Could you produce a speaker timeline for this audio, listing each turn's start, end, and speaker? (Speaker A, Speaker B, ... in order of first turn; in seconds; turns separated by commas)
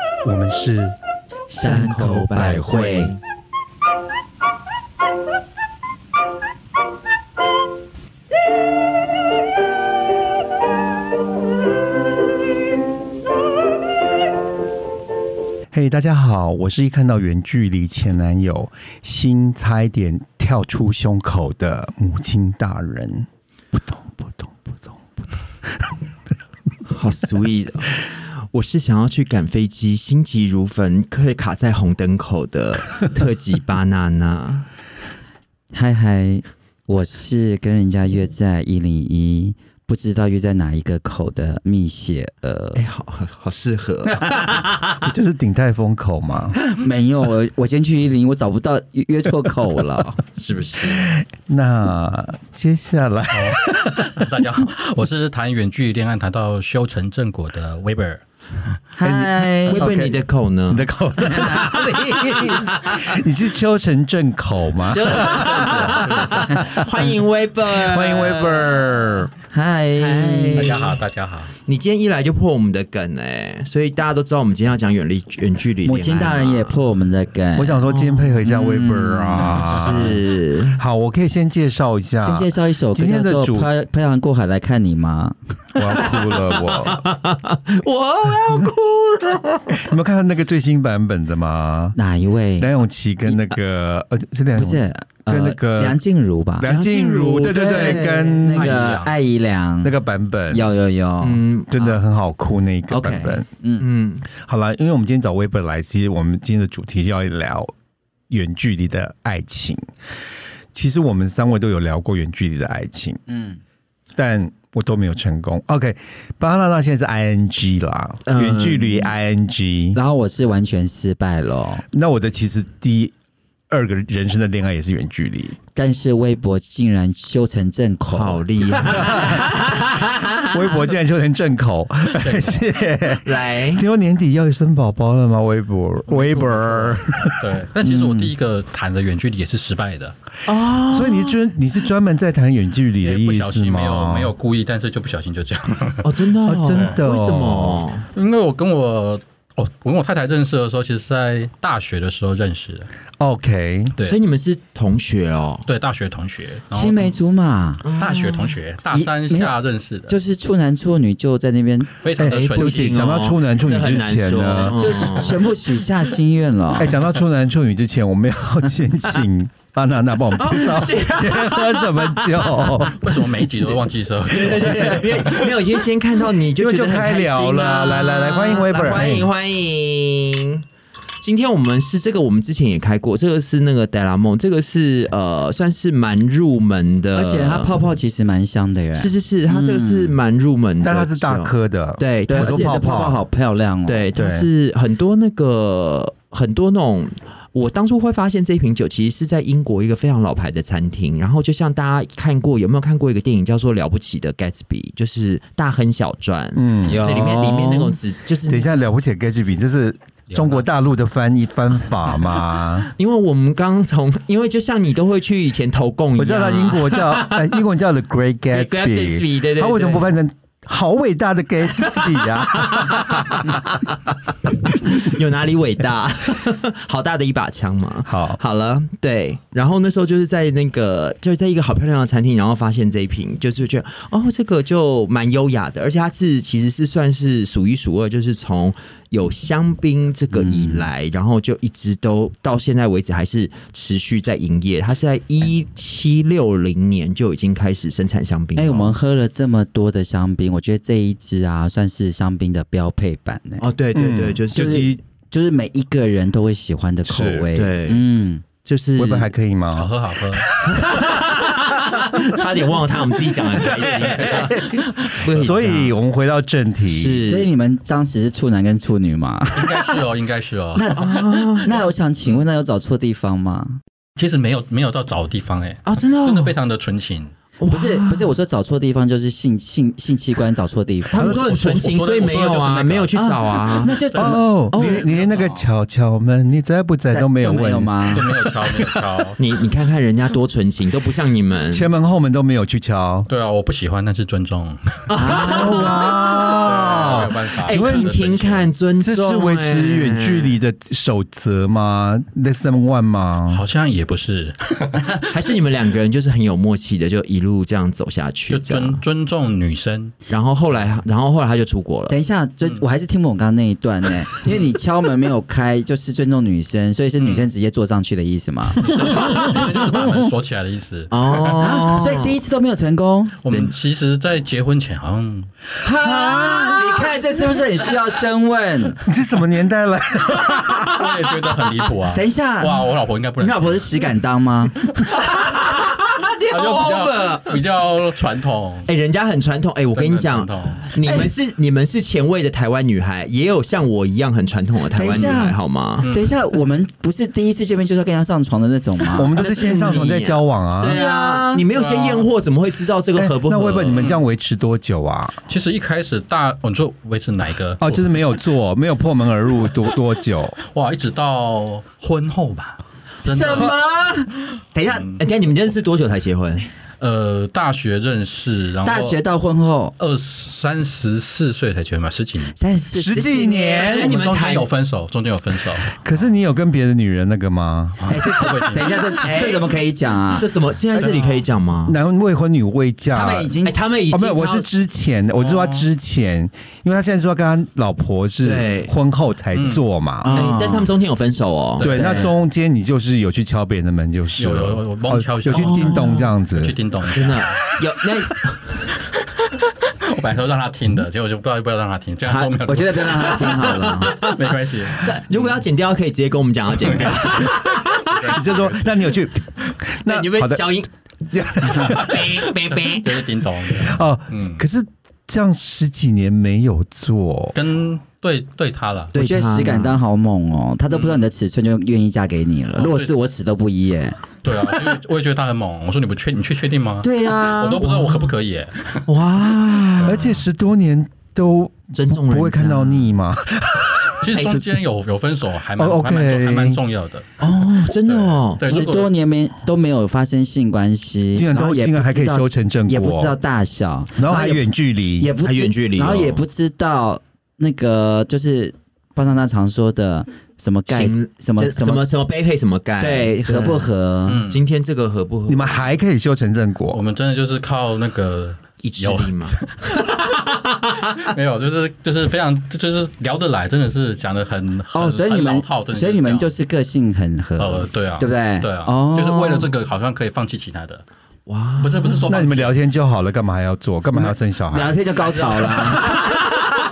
Speaker A: 0.2-0.9, Speaker B: 1.5-3.1, Speaker A: 1.6-3.0, Speaker C: 1.6-3.1, Speaker A: 15.7-25.1, Speaker C: 26.9-34.6, Speaker B: 35.7-42.8, Speaker C: 42.7-45.0, Speaker A: 45.0-46.6, Speaker B: 46.7-50.2, Speaker D: 50.4-51.0, Speaker A: 50.9-54.3, Speaker D: 53.3-58.2, Speaker B: 59.0-59.9, Speaker A: 59.0-69.3, Speaker C: 59.7-63.0, Speaker C: 64.9-69.0, Speaker D: 64.9-66.6, Speaker B: 69.5-70.8, Speaker C: 70.0-71.0, Speaker D: 70.5-71.5, Speaker C: 71.7-76.8, Speaker B: 75.8-79.9, Speaker A: 77.5-83.7, Speaker C: 79.4-80.8, Speaker B: 82.2-85.3, Speaker A: 85.8-87.0, Speaker C: 85.9-89.8, Speaker A: 89.8-92.0, Speaker B: 92.0-92.7, Speaker A: 92.6-96.0, Speaker B: 94.5-96.7, Speaker A: 96.6-98.9, Speaker C: 96.6-98.4, Speaker B: 97.4-99.9, Speaker D: 98.5-99.1, Speaker A: 99.8-100.7, Speaker B: 100.5-102.0, Speaker C: 101.2-101.7, Speaker A: 101.7-103.5, Speaker B: 102.9-103.8, Speaker C: 103.8-104.2, Speaker A: 104.4-107.7, Speaker A: 108.3-109.8, Speaker A: 110.7-113.2, Speaker B: 113.3-113.6, Speaker A: 114.2-120.0, Speaker C: 118.2-119.1, Speaker B: 119.9-121.8, Speaker A: 121.9-123.1, Speaker A: 123.7-125.6, Speaker B: 125.7-129.2, Speaker C: 128.1-130.6, Speaker A: 128.8-129.5, Speaker A: 130.5-138.3, Speaker D: 132.1-132.6, Speaker C: 133.2-133.8, Speaker D: 136.1-140.1, Speaker C: 140.4-141.4, Speaker A: 140.7-144.3, Speaker D: 143.0-147.0, Speaker C: 146.0-148.1, Speaker A: 146.4-147.8, Speaker D: 148.1-152.9, Speaker A: 153.2-153.9, Speaker C: 154.0-155.7, Speaker D: 155.7-157.1, Speaker B: 156.7-157.9, Speaker C: 157.8-158.6, Speaker D: 158.0-160.2, Speaker B: 158.9-159.5, Speaker B: 160.1-161.9, Speaker D: 162.0-163.3, Speaker A: 162.2-165.1, Speaker C: 162.3-165.5, Speaker B: 164.7-167.0, Speaker A: 166.8-173.2, Speaker C: 170.3-172.9, Speaker D: 172.8-175.5, Speaker C: 173.5-180.6, Speaker A: 174.7-175.3, Speaker A: 176.5-179.3, Speaker C: 181.2-187.8, Speaker B: 187.1-190.2, Speaker C: 188.9-192.7, Speaker A: 190.8-193.2, Speaker B: 192.3-194.1, Speaker C: 193.9-208.9, Speaker A: 194.1-194.5, Speaker A: 206.5-207.6, Speaker B: 206.8-207.9, Speaker A: 208.5-212.9, Speaker D: 210.3-210.7, Speaker C: 212.8-217.6, Speaker A: 216.2-223.5, Speaker C: 218.5-220.2, Speaker C: 221.9-223.8, Speaker C: 224.7-248.9, Speaker A: 228.0-228.4, Speaker B: 240.3-240.9, Speaker B: 248.6-253.7, Speaker C: 253.6-254.9, Speaker A: 253.9-255.0, Speaker B: 254.5-258.4, Speaker A: 257.0-257.5, Speaker C: 257.5-258.0, Speaker C: 258.6-259.3, Speaker A: 259.0-261.3, Speaker D: 259.7-260.5, Speaker C: 260.6-265.9, Speaker A: 261.9-262.2, Speaker A: 263.3-267.2, Speaker D: 264.0-265.6, Speaker C: 266.9-267.5, Speaker B: 267.2-269.9, Speaker D: 269.5-271.7, Speaker B: 270.7-273.8, Speaker C: 270.9-271.7, Speaker D: 274.2-277.3, Speaker C: 275.8-276.6, Speaker C: 277.6-278.4, Speaker B: 277.7-281.4, Speaker C: 281.1-283.9, Speaker A: 281.1-281.5, Speaker D: 281.2-285.7, Speaker B: 283.1-285.1, Speaker A: 284.1-289.0, Speaker B: 287.1-288.2, Speaker D: 288.1-289.4, Speaker C: 289.4-291.9, Speaker A: 291.7-293.3, Speaker D: 293.3-295.3, Speaker C: 295.1-300.6, Speaker B: 295.2-295.8, Speaker A: 295.3-298.1, Speaker D: 296.5-298.7, Speaker A: 299.0-303.6, Speaker D: 303.5-305.2, Speaker C: 305.3-309.0, Speaker D: 308.5-310.1, Speaker C: 310.3-312.2, Speaker B: 312.1-318.9, Speaker D: 317.2-317.5, Speaker D: 318.8-321.6, Speaker C: 319.0-320.0, Speaker C: 321.1-322.4, Speaker B: 321.5-323.7, Speaker D: 323.4-325.5, Speaker B: 325.8-329.0, Speaker A: 325.9-327.2, Speaker A: 329.0-331.1, Speaker D: 330.9-333.9, Speaker B: 332.1-332.9, Speaker B: 333.4-334.8, Speaker C: 335.1-337.6, Speaker D: 336.5-338.9, Speaker C: 338.9-346.1, Speaker D: 339.9-340.9, Speaker B: 341.0-341.3, Speaker B: 344.9-350.0, Speaker D: 346.0-346.3, Speaker A: 349.1-351.0, Speaker C: 349.4-354.1, Speaker B: 350.8-351.7, Speaker D: 351.8-352.3, Speaker A: 353.1-355.4, Speaker D: 353.9-354.2, Speaker D: 355.5-358.2, Speaker A: 357.8-360.6, Speaker D: 360.6-363.7, Speaker B: 363.2-365.1, Speaker D: 364.8-365.2, Speaker C: 365.2-366.7, Speaker D: 367.0-369.2, Speaker B: 368.8-369.9, Speaker D: 370.0-372.6, Speaker B: 372.6-373.9, Speaker A: 372.9-374.1, Speaker C: 373.3-374.7, Speaker D: 373.9-376.0, Speaker A: 375.9-378.0, Speaker D: 378.0-379.3, Speaker B: 378.1-380.5, Speaker C: 379.2-379.6, Speaker C: 380.3-382.0, Speaker D: 380.9-381.4, Speaker A: 381.9-383.5, Speaker B: 383.1-383.8, Speaker C: 383.6-384.7, Speaker A: 384.1-390.4, Speaker D: 385.4-385.9, Speaker C: 388.4-388.9, Speaker D: 389.5-389.8, Speaker B: 390.2-390.9, Speaker C: 390.3-391.9, Speaker D: 391.8-392.2, Speaker B: 391.8-392.3, Speaker A: 391.8-396.8, Speaker D: 394.4-397.5, Speaker C: 395.5-396.3, Speaker C: 397.1-398.7, Speaker D: 399.4-405.4, Speaker B: 402.3-404.2, Speaker C: 403.8-408.3, Speaker D: 406.9-409.1, Speaker A: 408.2-412.5, Speaker C: 410.1-410.9, Speaker C: 411.6-413.2, Speaker D: 412.6-414.6, Speaker A: 413.8-417.6, Speaker D: 417.5-419.1, Speaker C: 419.1-420.0, Speaker B: 419.1-424.2, Speaker D: 420.9-421.2, Speaker D: 422.8-423.1, Speaker D: 424.4-429.1, Speaker B: 427.0-428.3, Speaker C: 429.1-430.4, Speaker D: 429.8-430.2, Speaker A: 430.0-434.8, Speaker C: 431.9-433.1, Speaker D: 434.2-437.3, Speaker C: 434.3-434.6, Speaker A: 435.8-436.8, Speaker C: 437.4-438.9, Speaker D: 438.0-439.1, Speaker B: 438.6-452.0, Speaker A: 441.3-443.3, Speaker A: 444.2-445.3, Speaker C: 445.4-446.4, Speaker C: 450.9-453.9, Speaker B: 453.0-454.4, Speaker D: 454.3-454.6, Speaker C: 454.4-455.9, Speaker A: 455.5-457.0, Speaker D: 456.9-460.2, Speaker C: 458.8-461.0, Speaker D: 461.2-466.5, Speaker B: 464.9-469.7, Speaker D: 467.6-471.0, Speaker C: 471.5-472.3, Speaker D: 471.8-472.8, Speaker A: 472.2-475.0, Speaker B: 474.1-476.2, Speaker D: 475.7-476.2, Speaker C: 476.0-476.4